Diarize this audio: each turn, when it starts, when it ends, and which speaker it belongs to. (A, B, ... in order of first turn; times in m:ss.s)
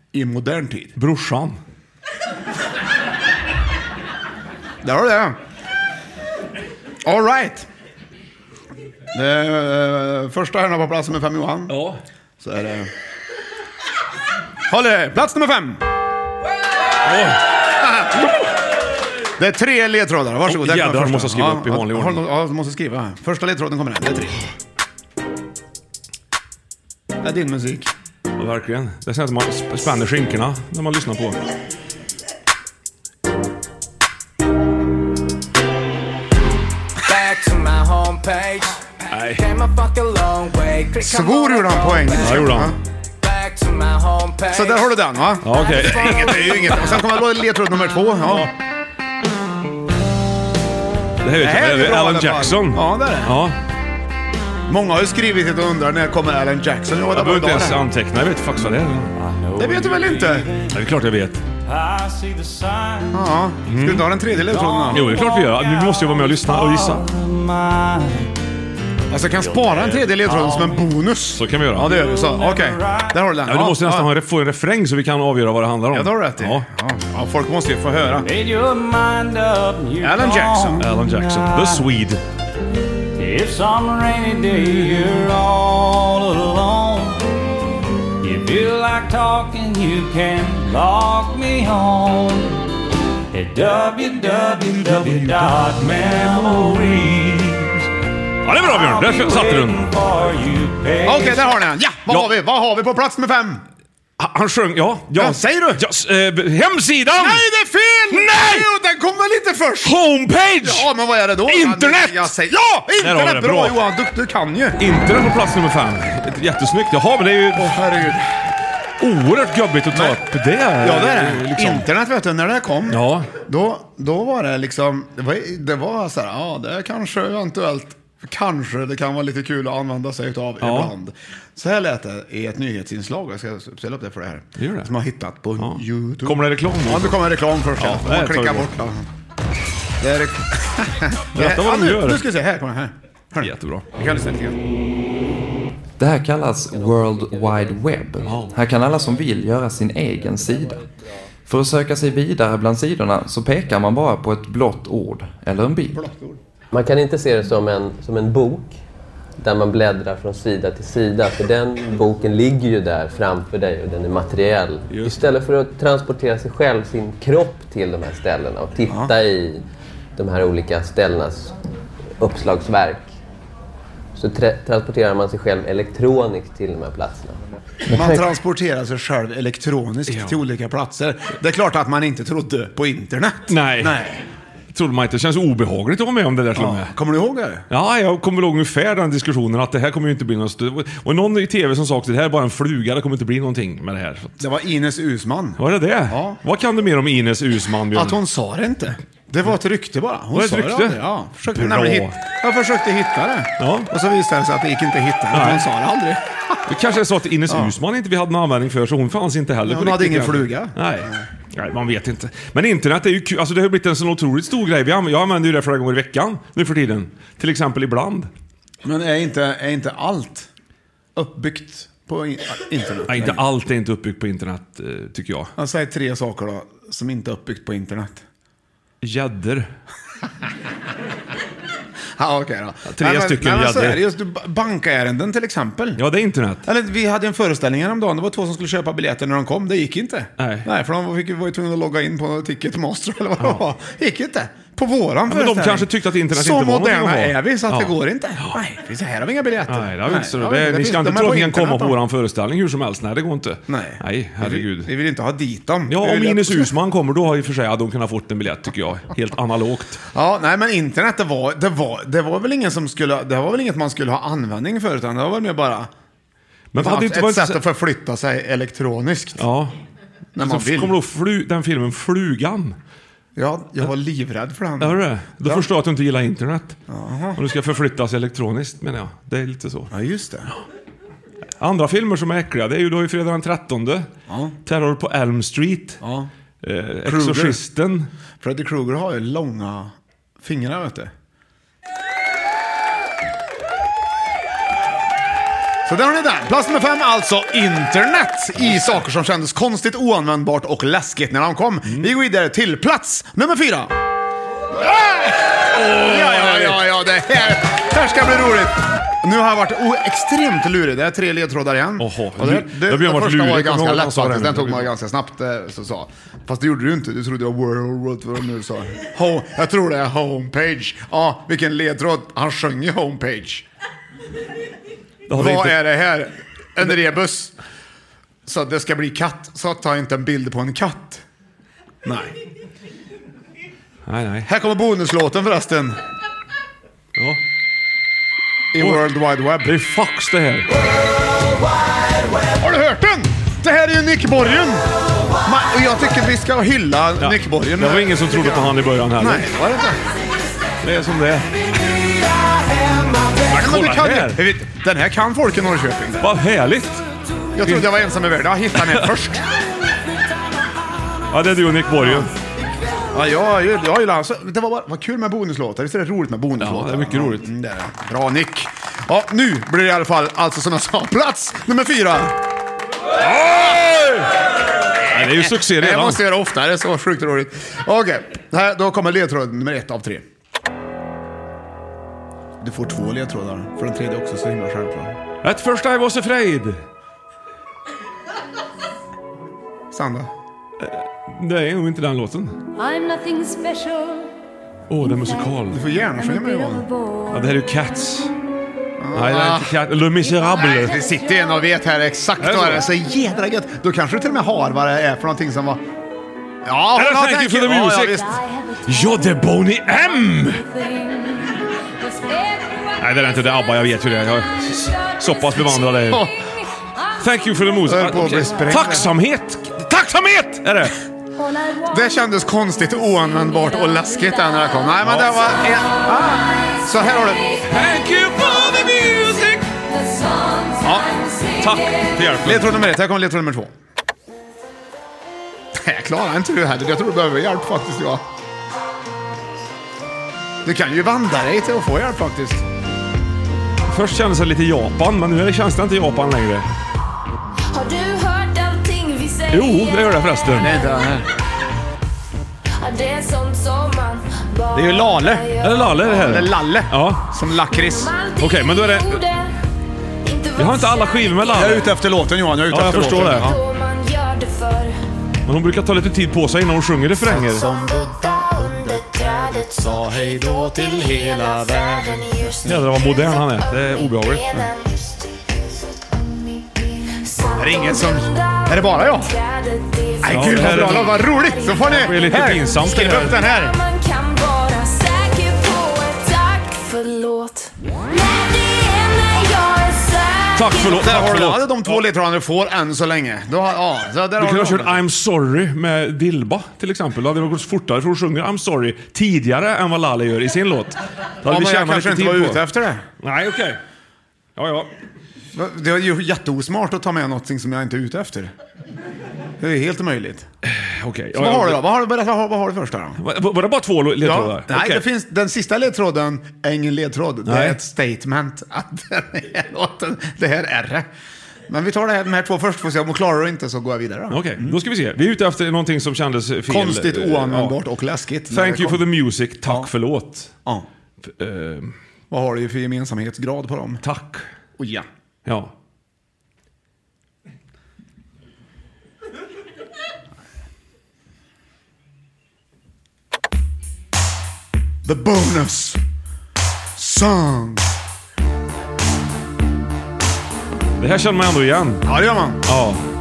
0:00.1-0:00.9 A
0:01.0-0:01.6 B
0:04.8-0:05.4 A
0:07.0-0:07.7 A
0:09.1-0:11.8 A
0:11.7-0:12.0 B
0:12.4-0:12.9 A
0:14.7-0:15.8 A
0:17.0-0:17.4 B
0:17.8-0:18.3 A
0:19.4-0:24.4 A
0:20.5-0:22.2 B
0:27.2-0:27.9 A
0:28.4-0:31.4 B
0:37.0-0:38.8 C
0:39.1-0:39.4 B
0:39.3-0:42.5 C
0:41.0-0:42.8 A
0:42.2-0:42.8 B
0:43.2-0:45.0 C
0:44.5-0:48.5 A
0:45.4-0:47.0 B
0:46.0-0:46.2 C
0:51.2-0:53.6 B
0:51.4-0:53.4 A
0:54.7-0:57.8 A
0:57.1-0:59.1 B
0:59.2-1:00.8 D
0:59.6-1:00.5 A
1:00.7-1:01.4 B
1:01.6-1:03.3 D
1:03.1-1:05.2 A
1:03.7-1:04.1 B
1:04.4-1:08.3 D
1:04.9-1:07.0 B
1:09.1-1:14.1 A
1:09.4-1:10.9 D
1:11.4-1:12.0 B
1:11.9-1:13.2 D
1:13.4-1:16.6 B
1:15.9-1:18.3 A
1:18.2-1:21.9 D
1:20.0-1:20.8 A
1:20.8-1:22.2 B
1:23.2-1:27.2 D
1:28.2-1:32.6 D
1:33.3-1:37.9 D
1:38.4-1:39.8 B
1:38.5-1:41.6 D
1:41.0-1:43.6 A
1:44.2-1:47.4 B
1:45.2-1:45.8 A
1:47.1-1:50.0 A
1:48.1-1:48.7 B
1:49.8-1:50.9 B
1:50.6-1:54.8 A
1:51.4-1:52.3 B
1:53.0-1:53.8 B
1:54.8-1:57.8 B
1:57.5-1:58.5 A
1:59.0-2:01.9 B
1:59.9-2:00.2 A
2:00.8-2:19.0 A
2:02.9-2:03.3 B
2:10.6-2:10.9 B
2:14.6-2:14.9 B
2:15.6-2:17.2 B
2:17.8-2:18.7 B
2:20.0-2:24.6 A
2:21.3-2:22.2 B
2:23.4-2:23.8 B
2:26.0-2:30.8 E
2:26.7-2:28.4 F
2:28.2-2:28.5 B
2:31.5-2:36.0 E
2:35.9-2:36.4 A
2:36.7-2:38.8 F
2:39.4-2:49.6 F
2:44.9-2:45.2 B
2:48.9-2:49.1 A
2:50.2-2:51.5 F
2:52.2-2:53.1 F
2:54.1-2:58.2 F
2:57.9-3:04.2 A
3:00.1-3:00.4 B
3:03.5-3:04.0 B
3:04.7-3:06.9 B
3:06.5-3:07.6 A
3:07.7-3:14.4 B
3:14.4-3:16.4 A
3:15.6-3:18.2 B
3:17.9-3:26.7 A
3:20.3-3:22.2 B
3:23.6-3:23.9 B
3:25.3-3:25.6 B
3:26.7-3:38.3 B
3:29.6-3:31.2 A
3:38.8-3:40.5 A
3:41.2-3:43.4 A
3:43.1-3:45.5 B
3:45.6-3:48.2 A
3:49.0-3:49.7 B
3:52.2-3:56.0 A
3:52.9-3:54.0 B
3:56.0-3:56.6 B
3:56.6-4:12.0 A
4:00.4-4:00.7 B
4:05.3-4:08.5 B
4:09.7-4:14.9 B
4:13.7-4:16.7 A
4:15.9-4:20.0 B
4:20.1-4:25.9 A
4:26.7-4:27.6 B
4:26.7-4:29.4 A
4:29.4-4:29.7 B
4:30.4-4:30.9 A
4:30.4-4:32.7 B
4:33.3-4:35.6 A
4:34.8-4:36.8 B
4:36.9-4:37.4 A
4:37.4-4:39.9 B
4:39.9-4:40.5 A
4:41.6-4:44.1 B
4:44.3-4:44.6 A
4:44.6-4:46.0 B
4:46.0-4:46.3 A
4:46.6-4:48.1 B
4:47.0-4:47.6 A
4:48.4-4:51.1 A
4:55.8-5:03.9 A
5:04.7-5:23.6 A
5:05.7-5:06.8 B
5:12.0-5:14.9 B
5:25.3-5:25.8 B
5:25.3-5:27.5 A
5:28.4-5:31.2 A
5:32.0-5:32.3 A
5:34.0-5:34.5 B
5:34.4-5:36.0 A
5:38.7-5:39.8 A
5:38.8-5:40.7 B
5:42.6-5:44.9 A
5:45.4-5:50.0 A
5:47.2-5:49.5 B
5:50.8-5:51.5 B
5:53.5-5:56.3 A
5:53.5-5:54.4 B
5:56.2-5:57.0 B
5:57.6-5:59.4 A
5:57.6-5:57.9 B
5:58.8-5:59.1 B
6:01.3-6:02.3 B
6:02.0-6:02.3 A
6:03.1-6:12.3 A
6:06.6-6:07.5 B
6:13.2-6:14.3 B
6:15.0-6:16.2 B
6:15.1-6:20.2 A
6:22.6-6:25.2 A
6:25.4-6:26.8 B
6:29.9-6:30.3 A
6:30.8-6:32.6 B
6:34.9-6:35.8 B
6:35.7-6:36.8 A
6:37.3-6:38.3 B
6:39.0-6:39.8 A
6:39.1-6:41.0 B
6:40.6-6:45.8 A
6:42.4-6:42.8 B
6:46.6-6:48.4 A
6:46.9-6:50.7 B
6:53.0-6:56.3 B
6:57.2-7:01.0 B
6:57.8-6:59.1 A
7:01.8-7:07.6 A
7:05.0-7:05.6 B
7:07.6-7:09.6 B
7:10.8-7:11.1 A
7:11.6-7:12.8 B
7:12.4-7:13.7 A
7:15.7-7:18.2 A
7:20.6-7:22.6 A
7:23.9-7:26.6 B
7:27.8-7:29.5 G
7:29.5-7:30.7 B
7:30.5-7:31.3 A
7:33.0-7:34.2 G
7:34.7-7:38.1 A
7:35.6-7:37.2 B
7:38.4-7:39.3 B
7:40.5-7:41.9 B
7:41.5-7:43.6 A
7:42.7-7:43.5 B
7:43.7-7:44.9 G
7:45.4-7:47.6 B
7:47.3-7:52.8 A
7:52.6-7:54.7 B
7:57.5-7:59.3 A
7:59.8-8:00.1 G
8:00.2-8:03.8 A
8:00.2-8:03.4 B
8:03.9-8:07.6 G
8:09.7-8:10.5 G
8:10.5-8:12.0 B
8:10.9-8:15.0 A
8:14.4-8:22.6 B
8:21.4-8:23.0 A
8:23.2-8:23.8 B
8:24.6-8:24.9 B
8:25.5-8:28.5 A
8:29.6-8:30.5 A
8:30.6-8:31.8 B
8:31.3-8:33.2 A
8:33.2-8:35.0 B
8:34.2-8:41.1 A
8:37.5-8:37.8 B
8:41.7-8:44.8 A
8:44.3-8:47.8 B
8:46.7-8:49.0 A
8:48.5-8:50.5 B
8:51.2-8:51.9 B
8:52.3-8:54.0 A
8:54.0-8:54.4 B
8:54.8-8:55.0 A
8:55.4-8:55.7 B
9:05.0-9:06.0 A
9:07.0-9:07.8 A
9:11.0-9:12.0 B
9:12.0-9:12.6 A
9:12.6-9:13.0 B